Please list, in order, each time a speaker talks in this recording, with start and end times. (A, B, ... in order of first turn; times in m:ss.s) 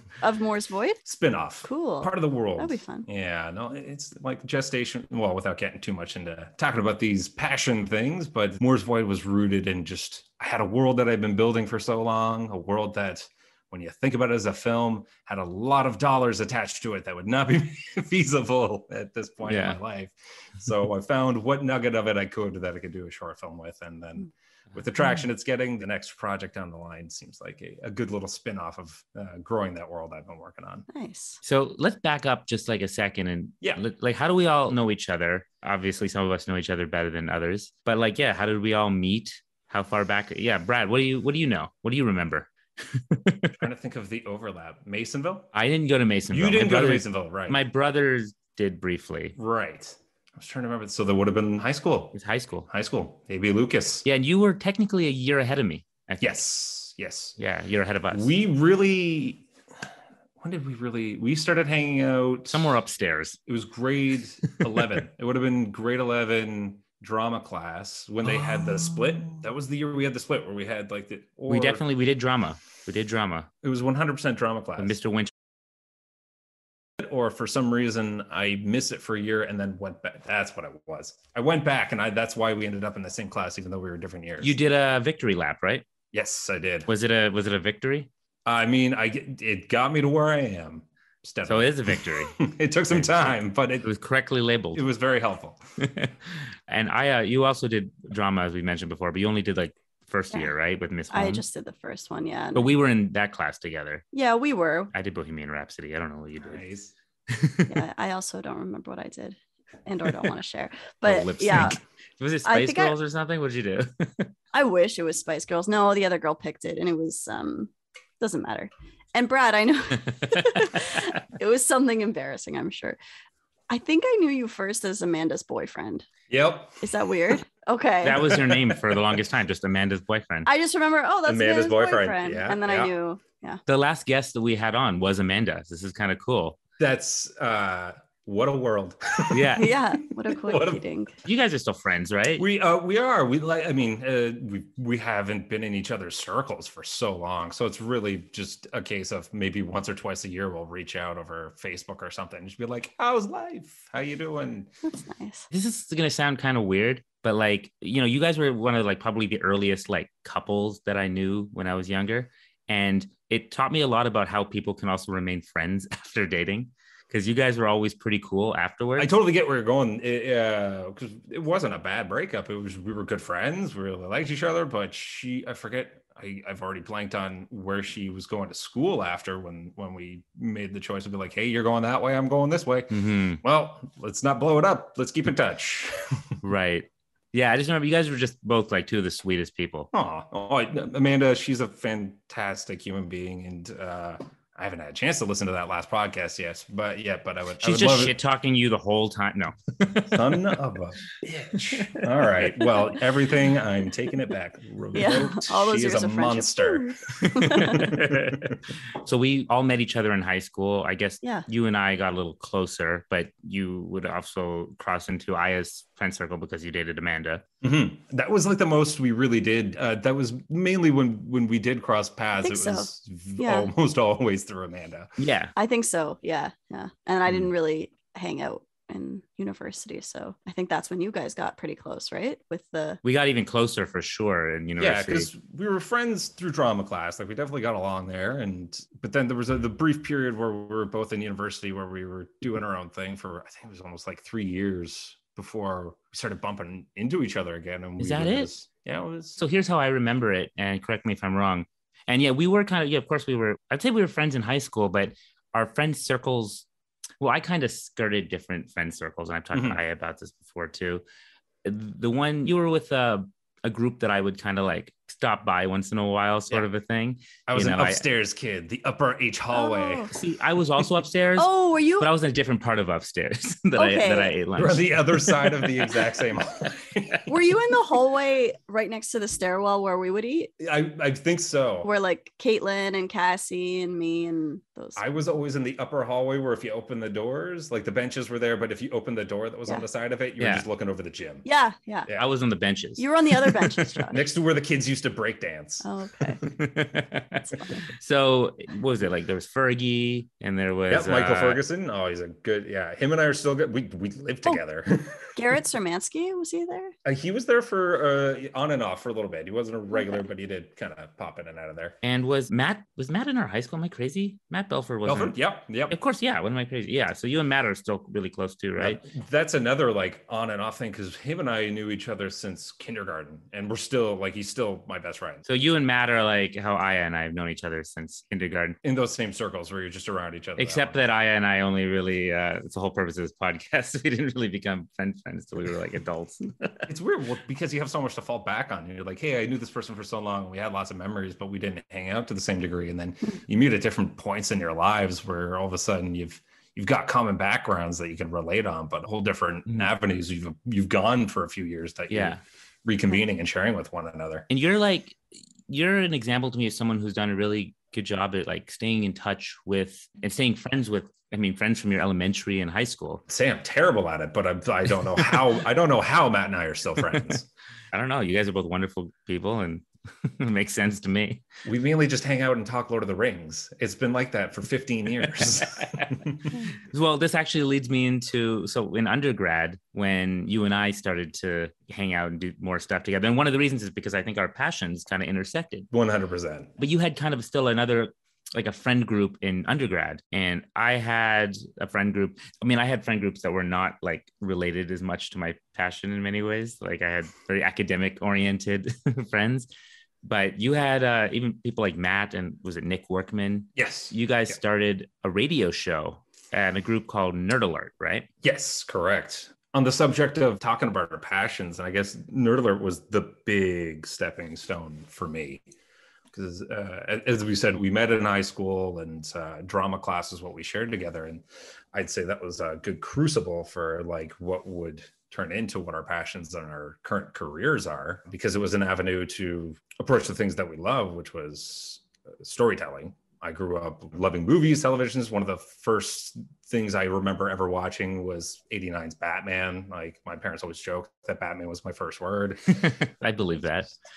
0:00.2-0:01.0 A
0:01.0-0:30.8 B
0:01.6-0:03.0 A
0:19.4-0:19.8 C
0:30.9-0:31.4 A
0:31.4-0:43.5 C
0:43.6-0:45.5 B
0:45.5-0:49.4 C
0:46.3-0:47.6 B
0:49.4-0:52.1 B
0:52.1-0:52.7 C
0:52.7-0:54.0 B
0:54.0-0:56.4 C
0:56.2-0:57.4 B
0:57.4-0:58.3 C
0:58.1-0:59.4 B
1:00.4-1:02.7 B
1:02.5-1:03.4 C
1:03.4-1:11.8 B
1:08.2-1:09.2 C
1:11.5-1:13.5 C
1:13.6-1:15.0 B
1:14.8-1:15.3 C
1:17.0-1:24.6 B
1:24.4-1:25.8 C
1:26.1-1:26.9 B
1:26.9-1:28.1 C
1:28.4-1:33.9 B
1:31.4-1:32.4 C
1:32.9-1:34.8 C
1:34.7-1:35.6 B
1:35.8-1:41.4 C
1:41.1-1:42.7 A
1:42.5-1:44.0 C
1:44.1-1:44.9 A
1:44.9-1:46.6 C
1:46.4-1:46.9 B
1:47.3-1:47.8 C
1:47.7-1:51.8 A
1:51.0-1:54.3 C
1:52.4-1:53.0 A
1:54.5-2:03.0 A
2:00.2-2:00.8 C
2:03.7-2:06.1 A
2:06.3-2:06.8 B
2:06.8-2:08.3 A
2:08.0-2:10.5 C
2:08.2-2:09.0 B
2:10.4-2:13.6 A
2:11.2-2:12.9 B
2:13.7-2:16.6 C
2:16.8-2:19.8 B
2:19.3-2:19.8 C
2:19.6-2:21.1 A
2:20.3-2:20.8 B
2:21.2-2:22.4 C
2:22.4-2:34.7 B
2:34.8-2:35.5 A
2:35.5-2:49.1 C
2:49.0-3:06.2 B
3:02.9-3:03.4 C
3:06.4-3:09.9 C
3:09.9-3:18.2 B
3:17.6-3:20.3 C
3:20.0-3:26.8 B
3:21.8-3:22.5 C
3:24.9-3:27.9 A
3:27.2-3:37.4 C
3:27.4-3:28.6 B
3:31.2-3:31.5 A
3:37.6-3:45.1 B
3:42.4-3:43.7 A
3:45.2-3:45.5 C
3:45.6-3:53.0 A
3:53.0-3:55.3 C
3:54.8-4:09.4 B
4:08.0-4:08.5 C
4:09.4-4:16.6 C
4:17.2-4:21.0 C
4:21.6-4:28.0 C
4:27.5-4:30.1 B
4:29.5-4:30.1 A
4:30.1-4:35.9 C
4:31.4-4:32.1 A
4:33.8-4:34.3 A
4:34.6-4:37.3 B
4:37.3-4:40.5 A
4:40.6-4:41.9 B
4:41.8-4:45.0 A
4:45.0-4:51.4 B
4:50.4-4:50.6 C
4:51.4-4:52.1 A
4:52.1-4:54.1 C
4:53.0-4:54.2 A
4:54.1-4:55.9 B
4:55.8-4:56.4 A
4:56.5-5:01.6 C
4:57.5-4:57.8 A
5:00.9-5:05.3 B
5:05.3-5:06.9 A
5:07.0-5:12.0 B
5:09.9-5:10.2 A
5:12.0-5:15.4 C
5:15.0-5:16.0 B
5:15.9-5:19.0 C
5:18.8-5:25.4 B
5:25.4-5:28.8 C
5:28.8-5:31.0 B
5:30.6-5:36.9 C
5:36.9-5:54.5 B
5:52.1-5:52.4 C
5:54.5-6:03.2 C
6:03.3-6:07.5 B
6:07.0-6:07.3 C
6:07.9-6:11.4 C
6:11.6-6:16.5 B
6:15.2-6:16.1 C
6:16.8-6:25.9 C
6:25.9-6:26.7 B
6:26.8-6:39.7 C
6:40.2-6:48.3 C
6:43.8-6:44.6 B
6:48.4-6:55.6 B
6:56.3-7:23.0 B
7:22.8-7:23.9 C